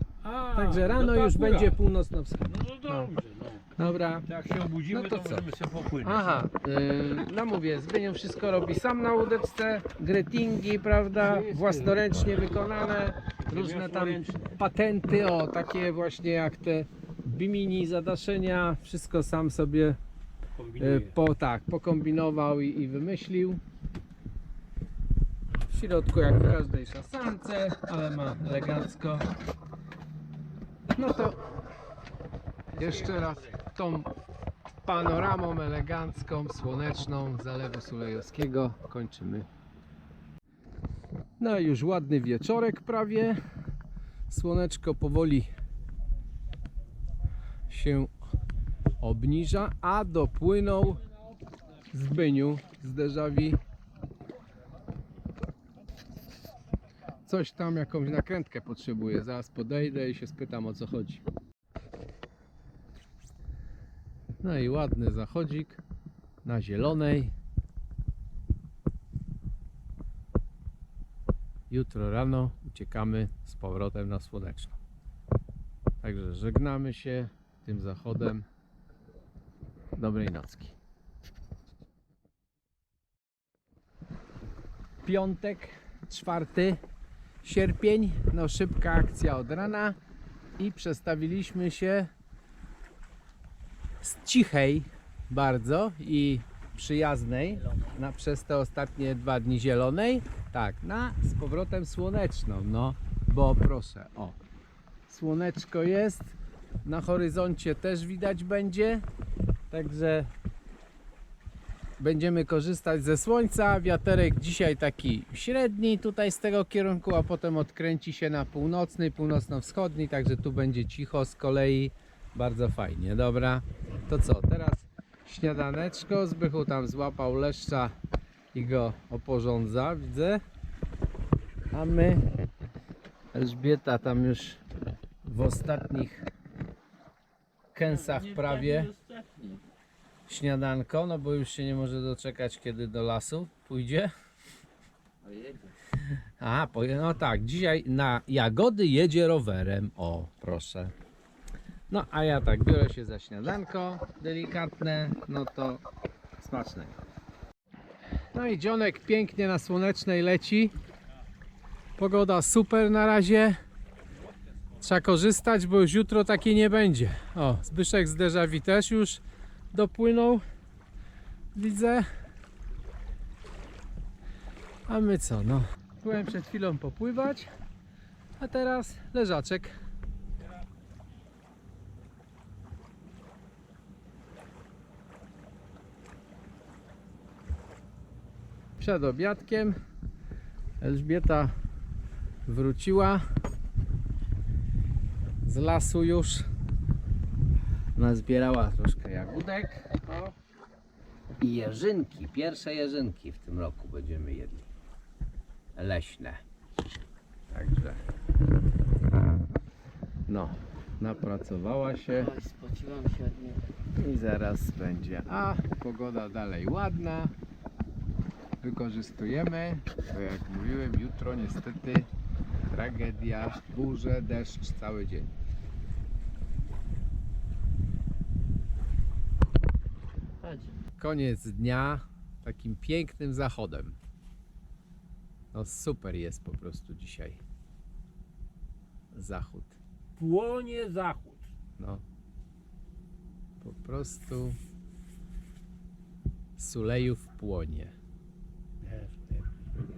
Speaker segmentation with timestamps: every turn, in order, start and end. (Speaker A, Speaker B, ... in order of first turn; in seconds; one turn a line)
Speaker A: 0.2-1.8
Speaker B: 0.5-3.1
Speaker A: 2.5-3.7
Speaker B: 3.8-4.3
Speaker A: 4.2-6.5
Speaker B: 4.9-5.5
Speaker B: 6.0-20.0
Speaker A: 11.2-12.1
Speaker A: 13.5-14.6
Speaker A: 20.6-21.2
Speaker B: 20.8-23.6
Speaker B: 25.7-29.3
Speaker B: 30.9-31.4
Speaker B: 32.7-34.1
Speaker A: 32.8-33.5
Speaker B: 34.9-39.5
Speaker B: 41.4-43.4
Speaker B: 44.3-45.5
Speaker B: 47.7-48.1
Speaker B: 49.0-51.0
Speaker B: 51.9-53.6
Speaker B: 57.3-61.2
Speaker B: 64.4-65.8
Speaker B: 66.4-67.3
Speaker B: 71.7-74.8
Speaker B: 76.0-78.5
Speaker B: 80.0-80.8
Speaker B: 85.0-86.8
Speaker B: 87.4-90.0
Speaker B: 90.6-92.1
Speaker B: 94.0-104.4
Speaker B: 105.1-109.0
Speaker B: 109.7-110.3
Speaker B: 112.0-128.0
Speaker B: 128.5-130.4
Speaker B: 131.7-132.3
Speaker B: 133.3-134.6
Speaker B: 135.2-136.3
Speaker B: 137.7-138.9
Speaker C: 137.9-139.6
Speaker B: 140.3-144.1
Speaker C: 145.2-145.8
Speaker B: 146.4-150.9
Speaker B: 151.9-155.8
Speaker B: 156.4-157.0
Speaker B: 158.3-160.7
Speaker B: 162.0-163.6
Speaker B: 164.8-169.2
Speaker B: 169.7-170.4
Speaker B: 171.6-172.1
Speaker B: 174.9-177.5
Speaker B: 178.4-179.8
Speaker B: 188.8-189.8
Speaker B: 190.8-191.5
Speaker B: 192.5-193.2
Speaker B: 195.4-196.5
Speaker B: 198.0-200.3
Speaker B: 201.4-204.7
Speaker B: 205.8-206.4
Speaker B: 207.5-208.0
Speaker B: 210.3-212.3
Speaker C: 212.1-213.7
Speaker B: 214.0-217.3
Speaker B: 218.6-222.1
Speaker B: 222.7-225.3
Speaker C: 230.4-230.8
Speaker B: 231.0-234.0
Speaker B: 235.5-237.4
Speaker B: 239.1-239.8
Speaker A: 240.2-241.5
Speaker B: 241.8-242.0
Speaker B: 243.6-244.6
Speaker B: 246.6-247.9
Speaker A: 248.8-249.5